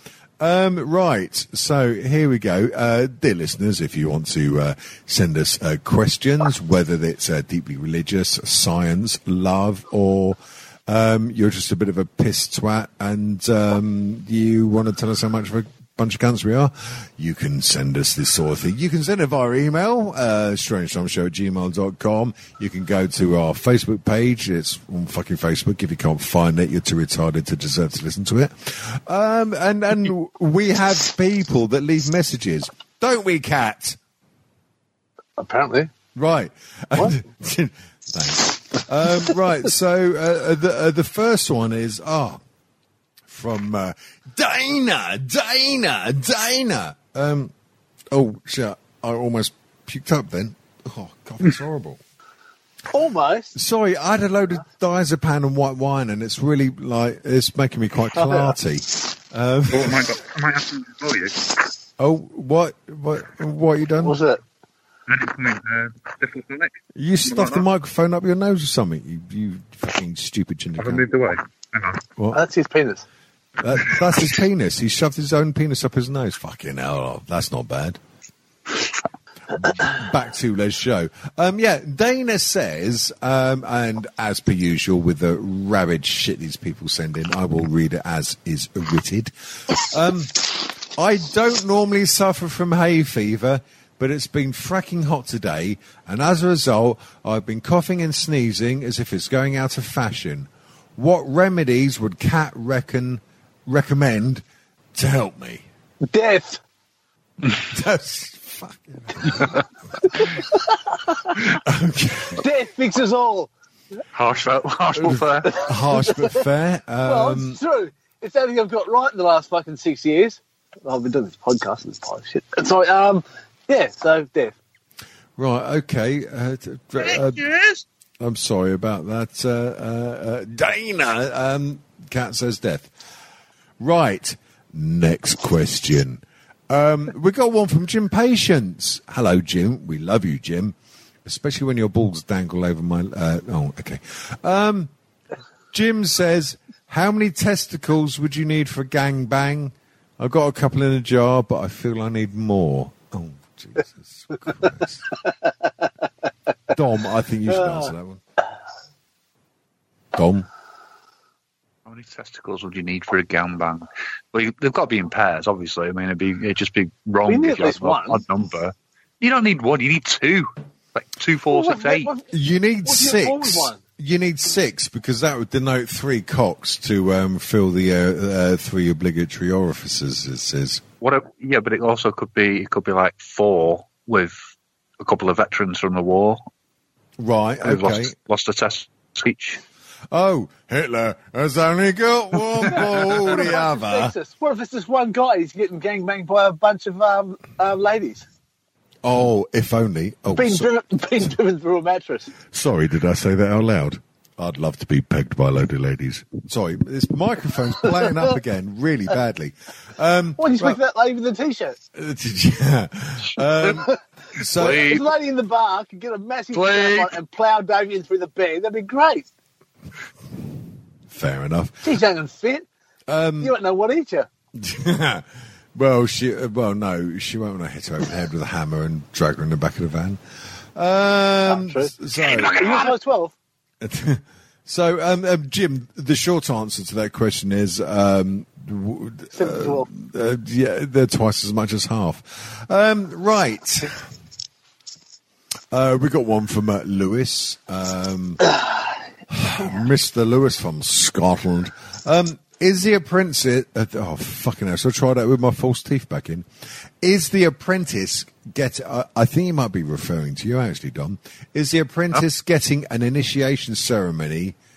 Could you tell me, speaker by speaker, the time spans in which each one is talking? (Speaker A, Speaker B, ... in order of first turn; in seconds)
Speaker A: 0.4-34.0, 36.1-42.4, 43.3-47.5, 48.1-52.0, 53.5-60.0, 62.0-64.2, 66.9-71.0, 73.6-78.0, 79.5-104.4, 104.9-105.6, 107.5-109.6, 111.4-112.4, 115.0-117.6, 125.4-127.4, 128.2-132.9, 133.8-144.9, 145.7-155.0, 156.7-158.2, 160.1-160.5, 172.3-180.8, 187.2-188.1, 190.1-194.1, 199.0-200.7, 202.5-210.8, 211.9-214.9, 221.1-221.9, 223.1-223.5, 224.6-230.2, 230.7-232.6, 233.8-243.9, 245.7-248.6, 249.3-256.5, 257.0-264.6
Speaker B: 35.4-35.9, 52.9-53.5, 58.1-58.5, 64.0-64.4, 72.3-73.0, 106.1-106.6, 110.2-110.6, 111.1-111.3, 112.3-113.5, 115.5-116.4, 117.0-124.6, 157.5-157.9, 167.2-168.2, 171.5-172.3, 172.8-173.8, 192.8-198.3, 200.3-202.3, 210.4-211.8, 214.6-219.3, 221.8-222.7, 223.4-224.3, 231.4-233.3, 239.3-239.9
Speaker C: 59.7-61.5, 65.1-67.6, 70.8-72.0, 114.1-115.5, 127.4-127.8, 161.8-172.1, 181.0-184.4, 185.0-186.4, 187.6-189.6, 214.5-215.1, 216.5-217.1, 232.2-232.9